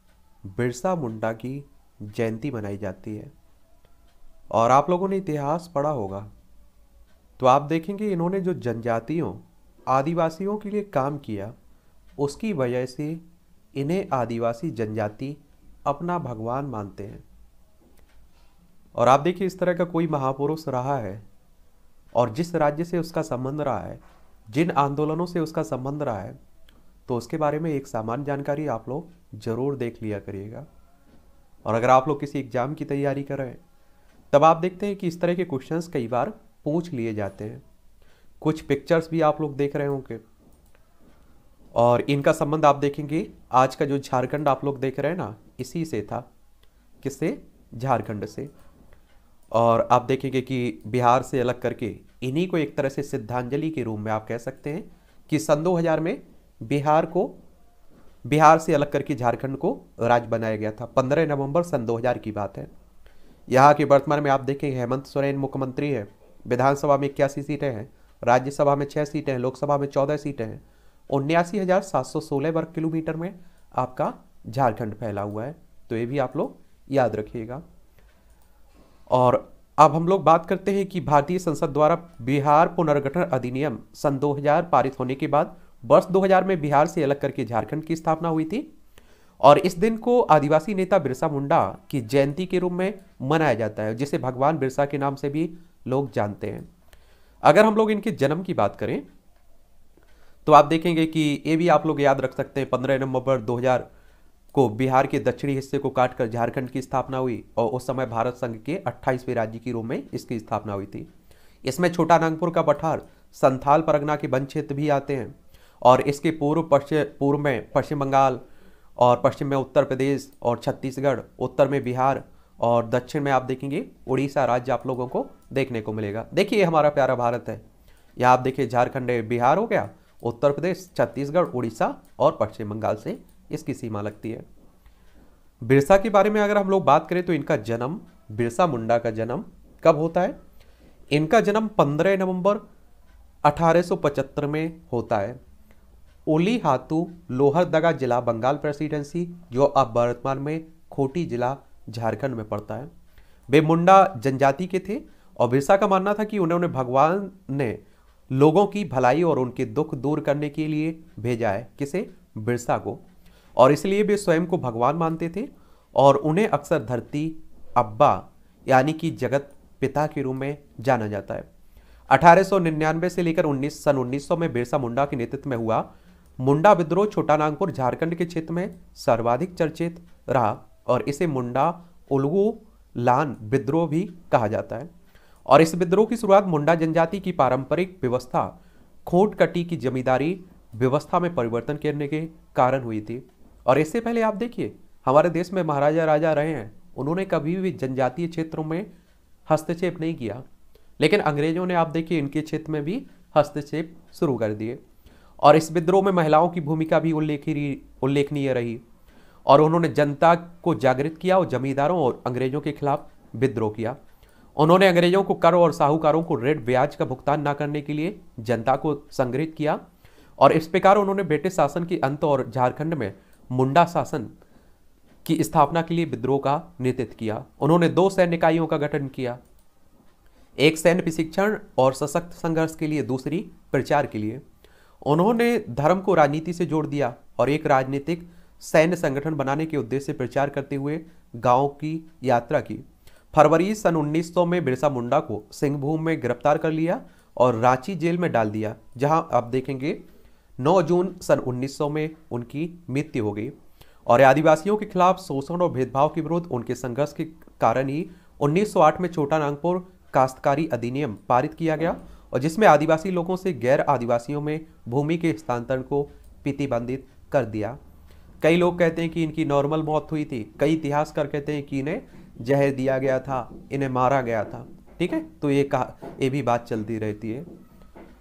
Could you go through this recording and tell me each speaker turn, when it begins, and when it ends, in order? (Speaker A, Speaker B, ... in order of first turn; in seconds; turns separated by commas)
Speaker A: 0.4-3.3, Speaker A: 4.5-6.3, Speaker A: 7.4-11.6, Speaker A: 12.2-13.2, Speaker A: 13.7-17.2, Speaker A: 18.9-21.2, Speaker A: 22.1-26.4, Speaker A: 27.1-30.7, Speaker A: 31.6-33.6, Speaker A: 34.3-37.6, Speaker A: 38.4-40.2, Speaker A: 41.7-46.3, Speaker A: 47.0-48.5, Speaker A: 49.5-57.4, Speaker A: 58.2-62.7, Speaker A: 63.5-77.6, Speaker A: 79.1-88.7, Speaker A: 89.4-96.7, Speaker A: 97.4-99.0, Speaker A: 100.5-103.9, Speaker A: 104.5-111.1, Speaker A: 111.6-118.4, Speaker A: 119.0-127.6, Speaker A: 128.2-134.4, Speaker A: 135.6-140.4, Speaker A: 141.1-142.6, Speaker A: 143.4-145.4, Speaker A: 146.3-152.9, Speaker A: 153.5-163.0, Speaker A: 163.6-171.5, Speaker A: 172.1-175.9, Speaker A: 176.4-184.9, Speaker A: 185.5-198.9, Speaker A: 199.5-200.4, Speaker A: 201.0-204.8, Speaker A: 205.4-208.8, Speaker A: 209.4-214.0, Speaker A: 214.6-219.8, Speaker A: 220.4-224.3, Speaker A: 225.2-229.4, Speaker A: 230.6-234.4, Speaker A: 235.0-250.0, Speaker A: 250.6-267.8, Speaker A: 268.4-277.5